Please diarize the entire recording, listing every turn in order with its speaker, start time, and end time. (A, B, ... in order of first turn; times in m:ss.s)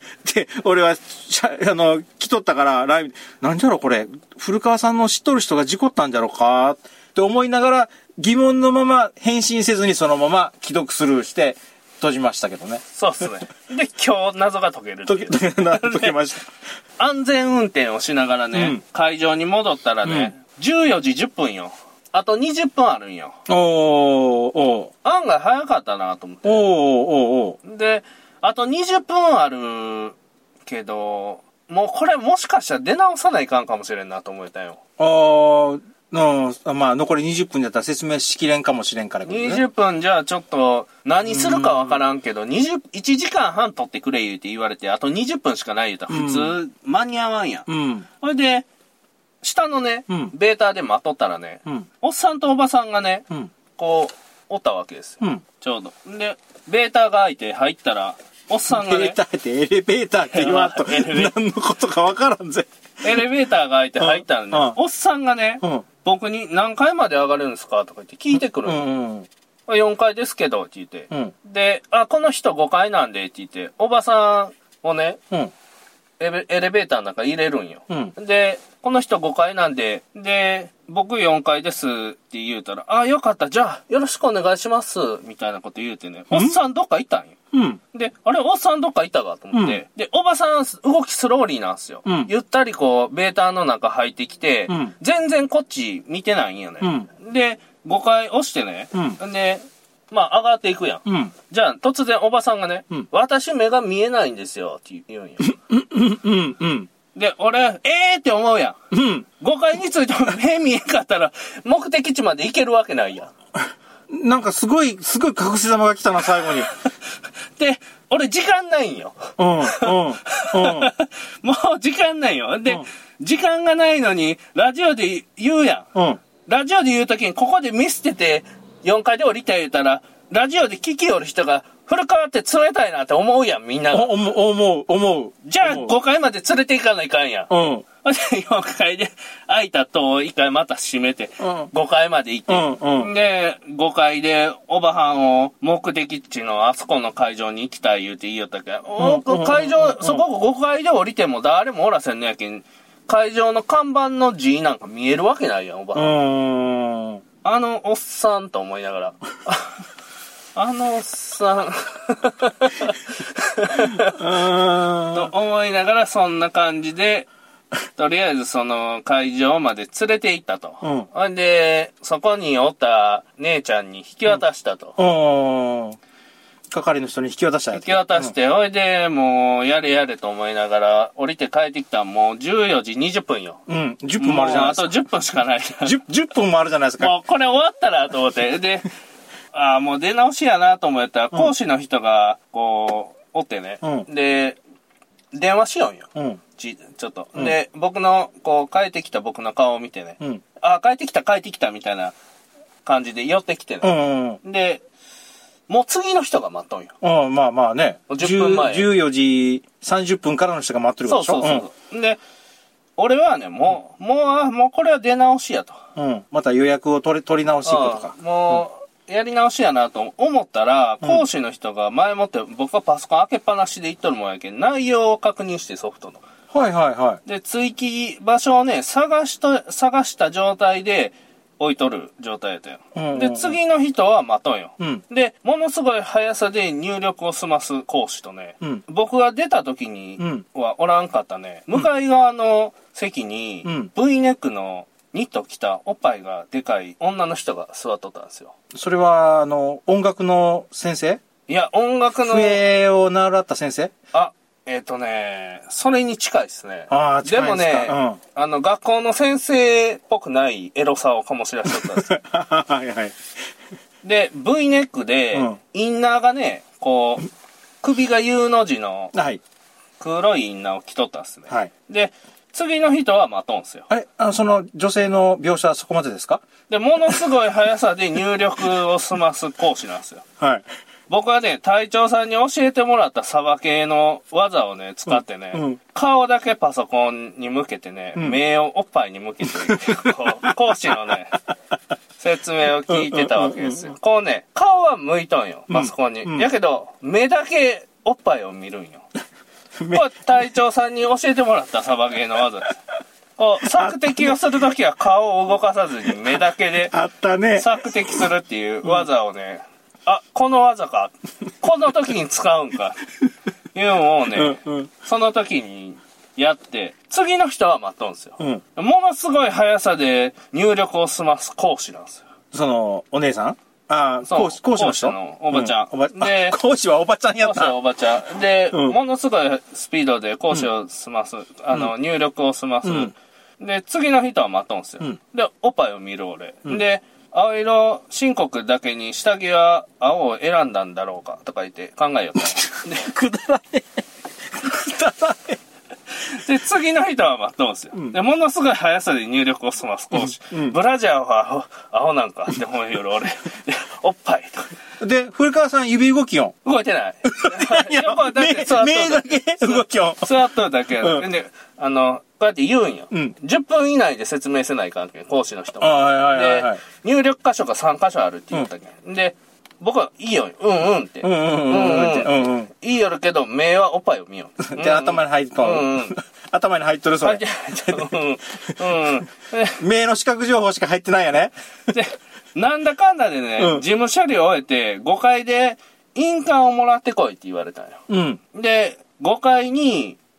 0:00.2-0:12.8 A
0:12.9-0:16.1 B
0:15.1-0:16.5 A
0:17.0-0:23.4 B
0:18.5-0:18.8 A
0:20.0-0:20.3 A
0:23.5-0:24.9 A
0:25.0-0:26.7 B
0:26.4-0:27.6 A
0:27.6-0:34.8 B
0:35.0-0:39.6 A
0:39.2-0:47.7 B
0:41.2-0:42.0 A
0:46.1-0:46.6 A
0:47.7-0:48.1 A
0:48.2-0:48.6 B
0:49.4-0:59.2 B
0:58.7-1:02.7 A
1:00.3-1:01.3 B
1:03.0-1:08.8 B
1:04.0-1:04.8 A
1:08.3-1:09.3 A
1:09.7-1:15.2 B
1:16.2-1:27.4 B
1:27.5-1:27.8 A
1:27.9-1:45.5 B
1:29.5-1:29.8 A
1:32.0-1:32.3 A
1:34.7-1:34.9 A
1:36.8-1:37.1 A
1:41.0-1:41.3 A
1:45.5-1:46.9 A
1:47.1-1:48.8 B
1:48.9-1:49.3 A
1:49.4-1:53.3 B
1:54.1-1:56.7 A
1:56.4-1:56.9 B
1:57.6-2:05.9 B
1:59.4-2:00.9 A
2:05.9-2:06.2 A
2:06.5-2:14.1 B
2:13.9-2:15.9 A
2:15.4-2:17.5 B
2:17.5-2:17.8 A
2:18.0-2:36.2 B
2:21.4-2:21.7 A
2:22.5-2:23.1 A
2:29.0-2:30.2 A
2:35.9-2:37.2 A
2:37.4-2:39.7 B
2:40.6-2:44.2 B
2:43.9-2:45.3 A
2:45.1-2:47.3 B
2:48.0-2:55.0 B
2:50.8-2:51.1 A
2:55.0-2:56.0 A
2:56.7-2:58.3 A
2:57.7-3:03.6 B
3:03.7-3:04.9 A
3:04.2-3:05.9 B
3:05.8-3:07.1 A
3:07.0-3:08.9 B
3:09.5-3:14.6 B
3:13.8-3:14.1 A
3:15.3-3:22.1 B
3:16.1-3:16.4 A
3:22.8-3:24.8 B
3:23.8-3:24.4 A
3:25.7-3:26.9 B
3:27.0-3:31.6 A
3:28.1-3:28.9 B
3:31.0-3:32.2 B
3:33.0-3:35.8 B
3:36.0-3:38.6 A
3:37.6-3:46.2 B
3:46.5-3:47.2 A
3:47.2-4:08.5 B
3:52.9-3:53.6 A
4:00.2-4:00.4 A
4:03.6-4:03.9 A
4:08.7-4:11.2 A
4:11.5-4:12.6 B
4:12.2-4:13.9 A
4:14.1-4:22.1 B
4:16.9-4:18.2 A
4:21.7-4:23.1 A
4:24.0-4:27.3 B
4:25.3-4:25.6 A
4:27.8-4:29.1 B
4:29.1-4:29.4 A
4:30.0-4:33.9 B
4:33.9-4:36.4 A
4:36.7-4:40.2 B
4:41.1-4:51.4 B
4:45.1-4:45.8 A
4:49.5-4:50.5 A
4:52.2-4:59.0 B
4:52.9-4:53.9 A
4:55.7-4:56.5 A
4:59.8-5:00.1 A
4:59.9-5:02.7 B
5:03.4-5:06.9 B
5:03.6-5:04.4 A
5:06.9-5:08.2 A
5:07.6-5:13.0 B
5:13.7-5:22.2 B
5:14.3-5:14.9 A
5:22.5-5:27.8 A
5:24.2-5:26.6 B
5:27.4-5:43.1 B
5:28.7-5:29.0 A
5:32.8-5:33.1 A
5:42.4-5:45.6 A
5:46.2-5:54.7 B
5:50.2-5:50.8 A
5:55.0-5:56.5 A
5:56.6-6:16.2 B
5:57.2-6:00.4 A
6:01.0-6:01.2 A
6:05.8-6:06.8 A
6:11.2-6:12.7 A
6:14.7-6:18.1 A
6:17.2-6:19.8 B
6:19.8-6:21.9 A
6:21.9-6:28.0 B
6:28.1-6:28.4 A
6:28.5-6:30.2 B